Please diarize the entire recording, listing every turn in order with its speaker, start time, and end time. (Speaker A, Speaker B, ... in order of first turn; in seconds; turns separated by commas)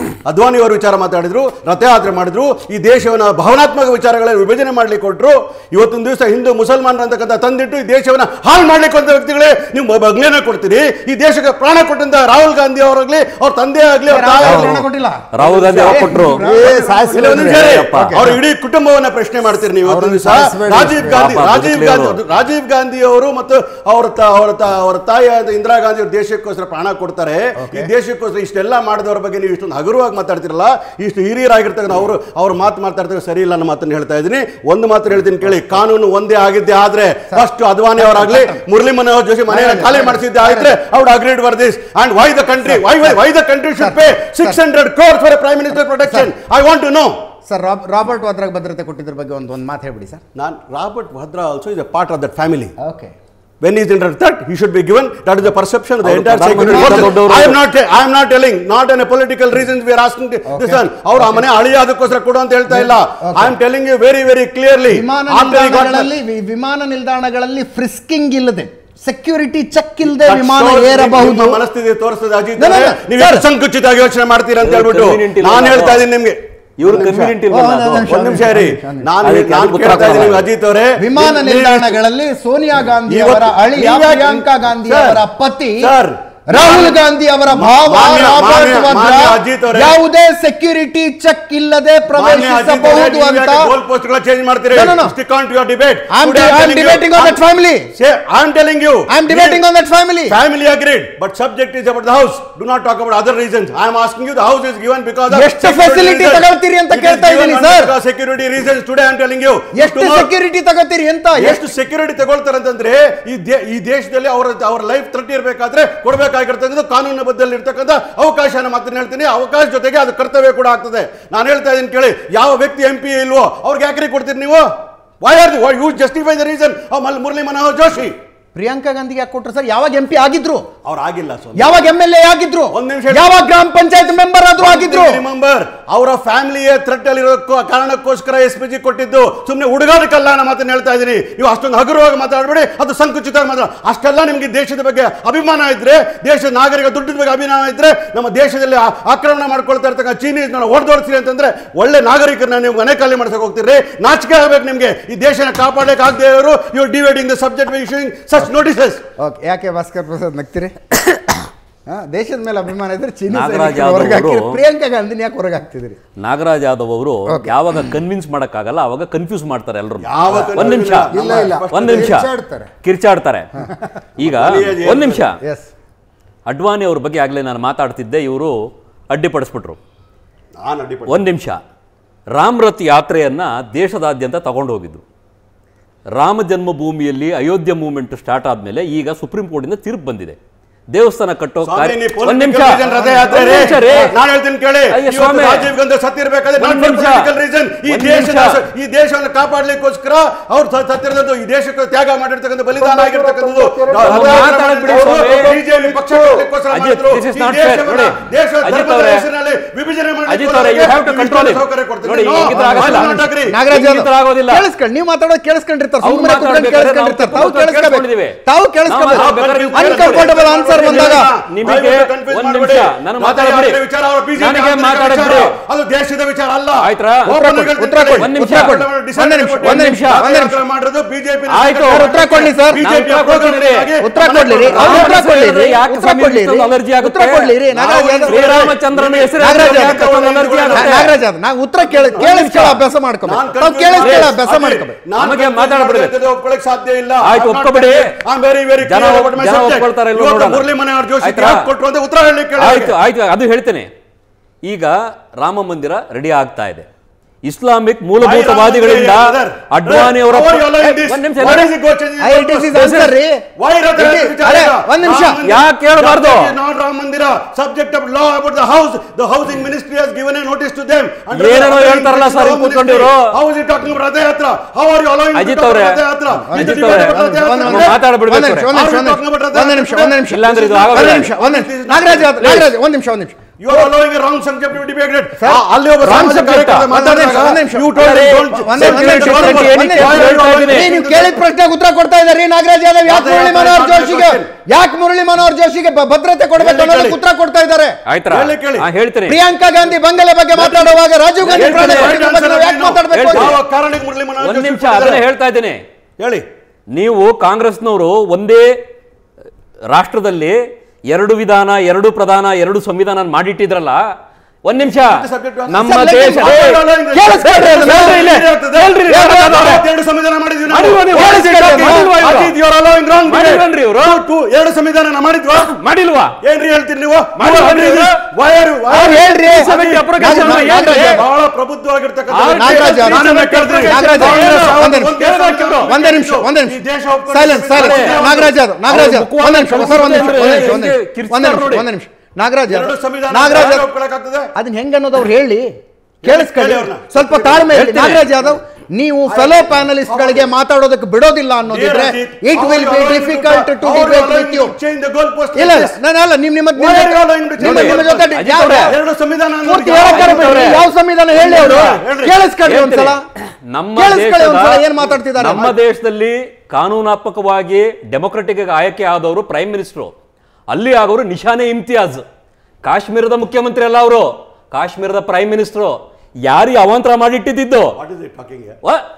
Speaker A: 0.2-14.8, Speaker B: 14.1-15.3, Speaker C: 14.4-16.4, Speaker A: 15.4-16.3, Speaker B: 15.8-18.4, Speaker D: 16.4-17.9, Speaker A: 17.1-47.1, Speaker C: 17.5-18.4, Speaker D: 19.8-21.4, Speaker C: 21.1-22.2, Speaker B: 27.6-27.9, Speaker B: 37.3-38.6, Speaker B: 39.5-40.8, Speaker B: 42.6-43.2, Speaker B: 43.7-44.6, Speaker B: 45.9-46.3, Speaker B: 47.5-50.2, Speaker A: 50.4-52.7, Speaker B: 52.8-53.1, Speaker A: 53.6-66.2, Speaker C: 56.0-57.6, Speaker B: 56.7-57.1, Speaker B: 60.5-61.5, Speaker B: 62.7-63.5, Speaker B: 64.9-71.6, Speaker A: 70.0-77.3, Speaker B: 72.6-73.5, Speaker C: 74.6-76.1, Speaker C: 76.8-78.3, Speaker B: 77.1-79.2, Speaker A: 78.0-82.0, Speaker C: 79.2-80.5, Speaker B: 81.0-85.9, Speaker A: 83.1-85.3, Speaker A: 85.8-90.0, Speaker B: 86.5-93.8, Speaker A: 92.1-99.6, Speaker B: 94.7-95.2, Speaker B: 96.1-97.9, Speaker B: 99.1-100.4, Speaker A: 100.3-110.3, Speaker B: 105.3-108.0, Speaker B: 109.7-111.6, Speaker A: 111.3-124.6, Speaker A: 125.2-128.2, Speaker B: 128.5-130.7, Speaker A: 130.8-131.9, Speaker B: 131.6-135.2, Speaker A: 132.7-133.5, Speaker A: 134.6-159.0, Speaker B: 159.2-160.8, Speaker B: 161.9-166.0, Speaker C: 163.3-164.6, Speaker C: 166.2-171.1, Speaker B: 167.3-168.0, Speaker A: 170.0-172.2, Speaker B: 170.3-170.7, Speaker D: 170.7-172.7, Speaker C: 171.7-172.3, Speaker C: 172.8-173.5, Speaker C: 174.2-175.3, Speaker A: 174.2-175.3, Speaker B: 175.4-175.7, Speaker C: 176.5-178.6, Speaker C: 179.1-179.8, Speaker A: 180.6-181.2, Speaker C: 181.1-181.6, Speaker C: 182.3-185.0, Speaker C: 186.2-190.4, Speaker C: 190.9-194.2, Speaker A: 191.6-213.6, Speaker C: 194.9-195.7, Speaker C: 196.6-197.3, Speaker C: 197.9-198.6, Speaker D: 202.8-206.5, Speaker C: 204.0-205.6, Speaker C: 206.7-209.3, Speaker C: 210.3-214.7, Speaker B: 212.5-221.3, Speaker C: 216.0-223.8, Speaker A: 219.1-235.3, Speaker C: 224.3-225.6, Speaker C: 226.8-227.4, Speaker B: 227.4-230.6, Speaker C: 228.2-228.9, Speaker C: 229.6-230.2, Speaker C: 231.5-233.9, Speaker B: 232.0-232.9, Speaker B: 234.0-238.4, Speaker C: 234.7-237.7, Speaker A: 237.7-241.1, Speaker C: 238.2-241.2, Speaker B: 239.4-240.0, Speaker B: 240.7-245.0, Speaker A: 241.8-242.6, Speaker C: 242.1-242.9, Speaker A: 243.2-253.0, Speaker C: 244.0-244.4, Speaker C: 245.2-246.2, Speaker C: 247.2-248.1, Speaker C: 248.8-250.7, Speaker C: 251.2-251.7, Speaker C: 252.6-253.9, Speaker C: 254.6-256.9, Speaker C: 257.4-261.7, Speaker A: 258.2-263.1, Speaker B: 262.2-263.4, Speaker C: 262.7-263.1, Speaker A: 263.6-278.0, Speaker B: 264.0-265.4, Speaker C: 265.4-266.6, Speaker C: 271.3-273.4, Speaker C: 275.3-278.7, Speaker B: 276.4-280.5, Speaker A: 278.7-282.6, Speaker C: 280.3-281.3, Speaker B: 281.1-283.9, Speaker C: 282.4-282.7, Speaker A: 283.6-291.5, Speaker B: 285.3-285.6, Speaker C: 286.0-286.9, Speaker B: 286.9-298.0, Speaker C: 287.9-290.9, Speaker A: 293.1-294.5, Speaker A: 296.6-297.2, Speaker C: 298.1-299.4, Speaker A: 298.3-298.9, Speaker B: 299.3-303.6, Speaker A: 300.5-305.3, Speaker C: 301.4-302.2, Speaker C: 303.1-303.6, Speaker C: 304.4-305.8, Speaker A: 306.2-306.4, Speaker C: 306.9-308.7, Speaker C: 309.9-310.6, Speaker C: 311.1-314.0, Speaker C: 314.6-319.9, Speaker A: 314.8-325.7, Speaker B: 315.8-316.3, Speaker B: 317.1-318.1, Speaker B: 319.1-319.5, Speaker C: 320.7-322.6, Speaker B: 321.2-322.1, Speaker C: 323.2-324.2, Speaker C: 325.5-326.4, Speaker A: 326.4-338.6, Speaker C: 327.4-328.2, Speaker C: 328.9-331.2, Speaker B: 328.9-331.2, Speaker C: 332.3-336.0, Speaker B: 332.6-333.2, Speaker B: 333.9-335.2, Speaker B: 335.9-343.8, Speaker C: 337.5-341.9, Speaker A: 342.7-344.5, Speaker C: 343.5-343.8, Speaker B: 344.6-345.7, Speaker A: 346.2-348.1, Speaker B: 346.3-354.8, Speaker C: 347.7-348.5, Speaker A: 349.2-350.5, Speaker A: 351.7-356.0, Speaker B: 355.5-359.0, Speaker A: 356.8-362.4, Speaker C: 357.6-359.0, Speaker B: 359.6-363.2, Speaker C: 360.0-360.8, Speaker C: 361.4-362.0, Speaker C: 362.6-370.1, Speaker B: 363.9-365.8, Speaker C: 370.7-372.2, Speaker C: 372.8-377.9, Speaker A: 377.9-378.8